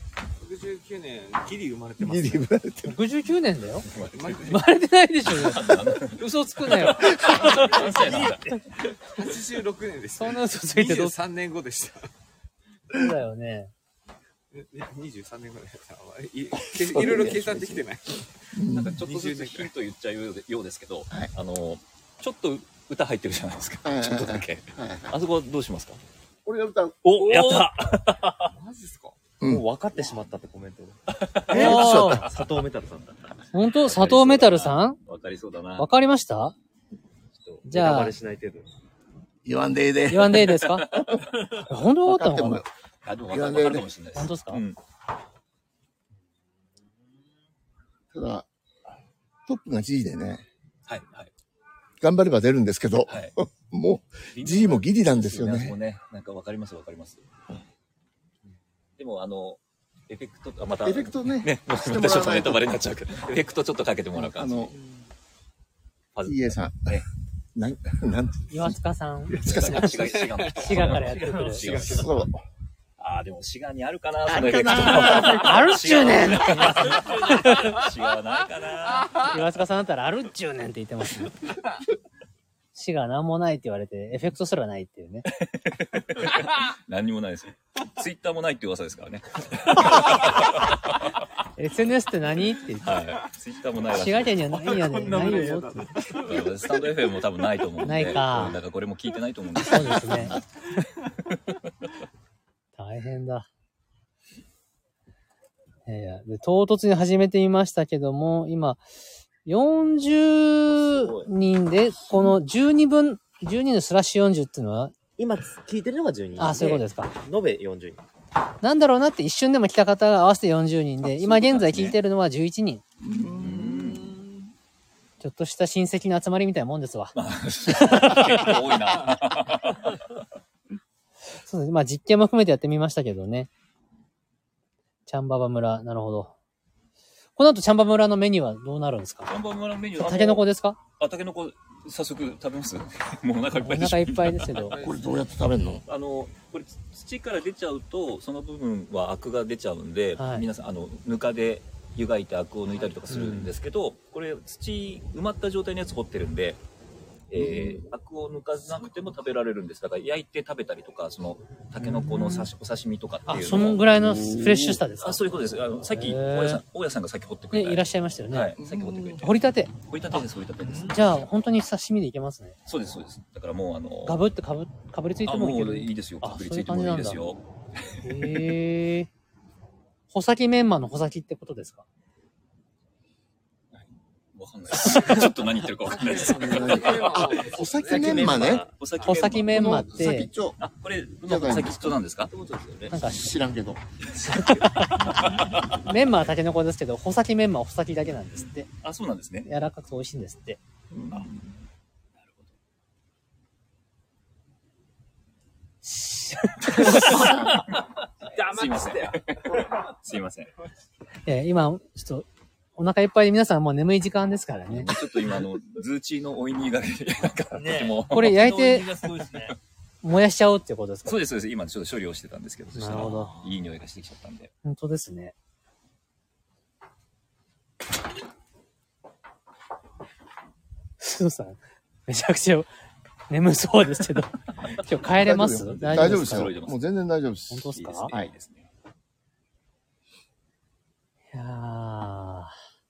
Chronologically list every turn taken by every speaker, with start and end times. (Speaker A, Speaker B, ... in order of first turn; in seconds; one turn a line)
Speaker A: 0.4-2.5
Speaker B: 2.0-3.0
Speaker C: 2.8-3.9
Speaker D: 3.8-4.6
Speaker A: 4.0-4.7
Speaker C: 4.5-7.9
Speaker D: 5.3-8.6
Speaker A: 7.5-8.3
Speaker A: 8.9-12.1
Speaker C: 10.2-11.1
Speaker C: 12.9-13.7
Speaker A: 14.5-18.3
Speaker B: 16.7-17.9
Speaker B: 18.5-19.0
Speaker D: 18.7-26.0
Speaker A: 19.0-19.7
Speaker B: 23.8-25.1
Speaker B: 26.4-27.0
Speaker D: 27.0-28.5
Speaker E: 27.2-27.6
Speaker A: 28.4-29.2
Speaker F: 29.4-33.3
Speaker D: 31.1-32.2
Speaker C: 31.5-32.3
Speaker B: 31.6-32.2
Speaker C: 33.5-35.0
Speaker D: 33.6-35.9
Speaker C: 35.8-36.5
Speaker F: 37.4-38.7
Speaker C: 37.6-38.1
Speaker B: 39.4-41.2
Speaker C: 40.1-40.9
Speaker D: 40.4-41.3
Speaker C: 41.5-42.6
Speaker B: 42.0-42.6
Speaker D: 43.0-44.8
Speaker B: 43.3-43.9
Speaker C: 44.1-44.6
Speaker B: 48.1-48.5
Speaker B: 49.5-50.4
Speaker D: 50.9-51.3
Speaker B: 52.0-55.8
Speaker D: 53.1-53.3
Speaker D: 54.3-57.2
Speaker D: 59.0-64.7
Speaker B: 60.8-62.8
Speaker B: 64.2-64.7
Speaker E: 64.7-65.0
Speaker D: 66.1-67.0
Speaker B: 66.2-67.0
Speaker B: 67.5-68.8
Speaker C: 68.5-71.6
Speaker D: 69.3-72.2
Speaker E: 70.7-71.7
Speaker B: 71.7-72.4
Speaker A: 71.7-72.0
Speaker D: 73.0-79.2
Speaker B: 74.3-75.6
Speaker C: 74.9-77.8
Speaker E: 76.5-77.3
Speaker C: 79.2-81.4
Speaker C: 82.7-85.3
Speaker D: 85.3-91.0
Speaker C: 91.6-92.9
Speaker D: 92.8-95.5
Speaker C: 93.9-95.8
Speaker A: 94.8-96.5
Speaker D: 96.1-100.4
Speaker C: 97.8-98.6
Speaker C: 99.6-100.4
Speaker C: 102.8-103.5
Speaker C: 105.8-108.8
Speaker C: 109.4-114.9
Speaker D: 110.7-111.3
Speaker F: 115.2-118.0
Speaker C: 116.4-117.1
Speaker C: 118.6-122.8
Speaker D: 121.0-121.9
Speaker B: 123.0-123.7
Speaker D: 123.3-124.1
Speaker E: 123.5-124.5
Speaker C: 125.2-127.1
Speaker D: 127.1-129.9
Speaker C: 127.7-128.7
Speaker C: 131.4-133.5
Speaker C: 135.1-136.3
Speaker C: 137.3-139.3
Speaker D: 139.3-140.4
Speaker C: 139.9-140.8
Speaker D: 141.0-144.7
Speaker C: 143.5-144.8
Speaker A: 144.5-145.3
Speaker B: 144.7-145.8
Speaker D: 145.8-156.6
Speaker C: 150.2-150.4
Speaker C: 153.1-153.5
Speaker D: 157.3-163.8
Speaker B: 157.3-157.8
Speaker C: 161.8-162.5
Speaker C: 163.3-165.2
Speaker B: 163.9-164.8
Speaker D: 165.0-171.3
Speaker C: 165.9-166.6
Speaker C: 167.5-168.5
Speaker B: 168.6-169.2
Speaker C: 169.2-169.7
Speaker E: 170.6-171.0
Speaker C: 170.9-172.6
Speaker D: 172.7-174.2
Speaker C: 174.0-177.2
Speaker D: 175.3-177.4
Speaker C: 178.0-179.1
Speaker C: 180.1-181.8
Speaker D: 184.3-187.2
Speaker A: 185.9-188.3
Speaker B: 185.9-188.7
Speaker F: 187.8-188.6
Speaker E: 187.9-188.7
Speaker D: 188.2-189.8
Speaker C: 189.0-190.3
Speaker B: 189.3-190.6
Speaker D: 190.6-192.3
Speaker B: 191.2-192.0
Speaker E: 192.3-193.0
Speaker C: 192.9-193.3
Speaker B: 193.0-193.8
Speaker D: 194.1-194.6
Speaker C: 194.2-198.7
Speaker D: 195.3-195.6
Speaker D: 198.8-199.5
Speaker C: 199.4-200.6
Speaker B: 200.9-201.3
Speaker D: 201.1-201.5
Speaker D: 202.2-202.5
Speaker C: 205.9-207.3
Speaker D: 206.7-207.8
Speaker E: 206.8-209.6
Speaker D: 208.4-210.5
Speaker C: 211.2-214.9
Speaker D: 214.7-218.5
Speaker E: 217.5-219.6
Speaker C: 218.1-218.9
Speaker C: 220.0-221.2
Speaker D: 221.0-224.5
Speaker C: 222.7-223.3
Speaker E: 223.0-223.5
Speaker C: 224.6-225.3
Speaker C: 231.0-232.7
Speaker C: 233.3-236.5
Speaker B: 235.0-238.3
Speaker D: 235.7-236.8
Speaker C: 237.5-238.1
Speaker D: 237.7-238.7
Speaker C: 241.3-242.6